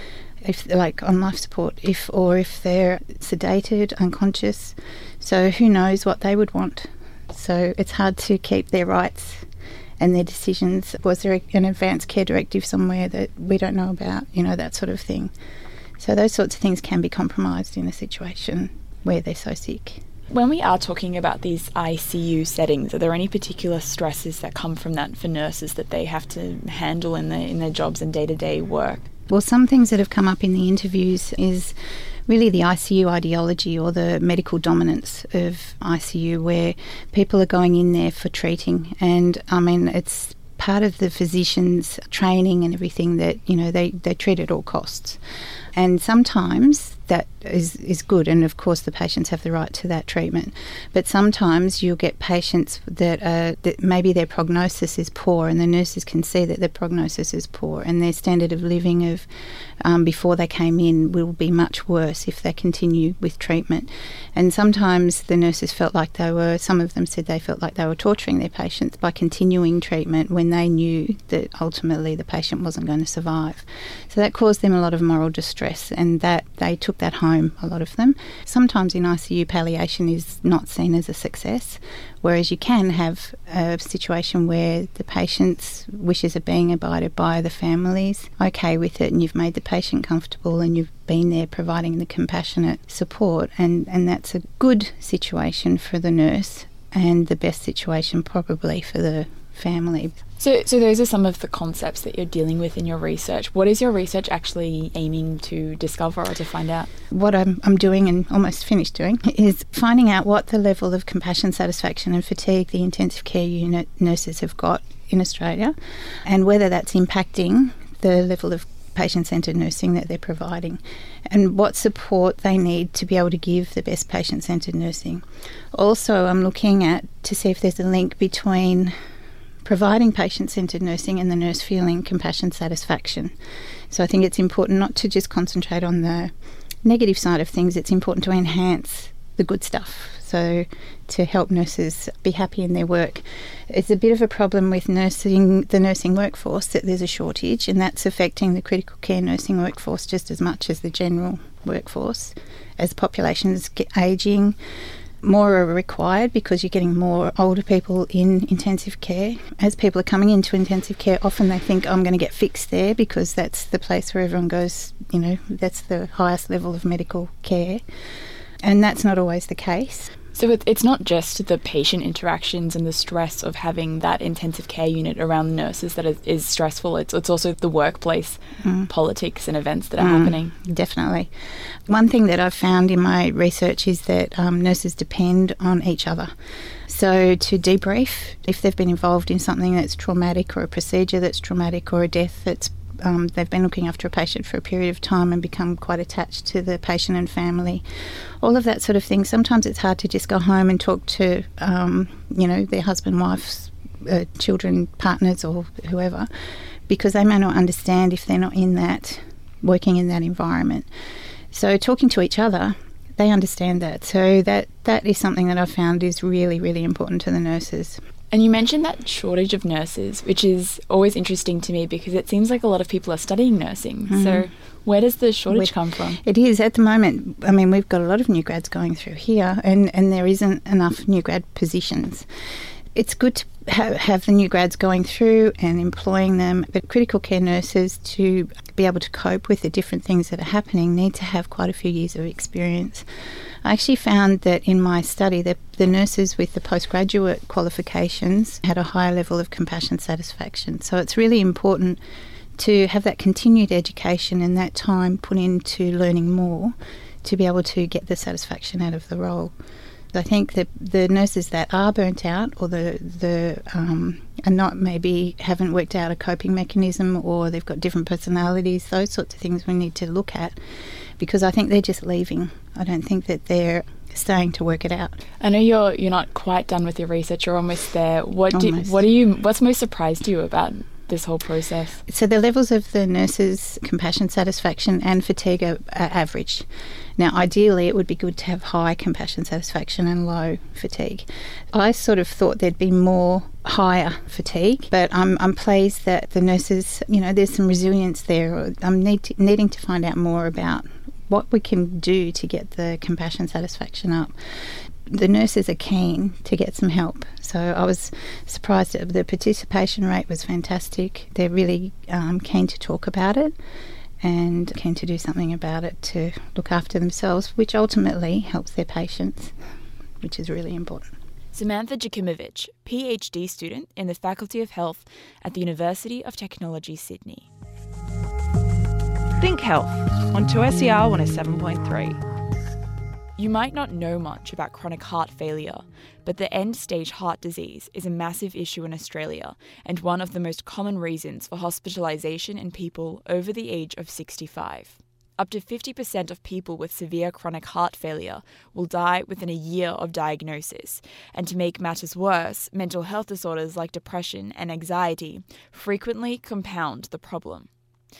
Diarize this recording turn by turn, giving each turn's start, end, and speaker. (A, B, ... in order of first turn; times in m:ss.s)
0:00.4-0:09.5 A
0:10.0-0:15.3 A
0:16.0-0:20.0 A
0:20.3-0:29.1 B
0:29.3-0:31.8 A
0:32.3-0:45.2 A
0:45.7-0:59.3 A
0:59.8-1:40.1 A
1:40.4-1:46.9 B
1:47.1-2:08.9 A
2:09.6-2:13.3 A
2:13.9-2:16.3 A
2:16.8-2:34.6 A
2:35.2-2:47.8 A
2:48.6-2:50.1 A
2:50.4-3:00.5 B
2:58.6-2:58.9 A
3:00.0-3:06.3 A
3:06.9-3:17.8 A
3:18.4-3:26.3 A
3:26.9-3:30.9 A
3:31.5-3:38.0 A
3:38.3-3:46.2 B
3:44.1-3:44.5 A
3:45.5-3:52.3 A
3:52.9-4:03.1 A
4:03.6-4:12.0 A
4:12.6-4:19.5 A
4:20.1-4:30.6 A
4:31.2-4:35.2 A
4:35.4-4:42.0 B
4:38.5-4:39.0 A
4:42.1-5:13.6 A
5:14.2-5:19.6 A
5:20.2-5:21.1 A
5:21.5-5:27.5 B
5:29.4-5:32.2 C
5:33.4-5:57.7 B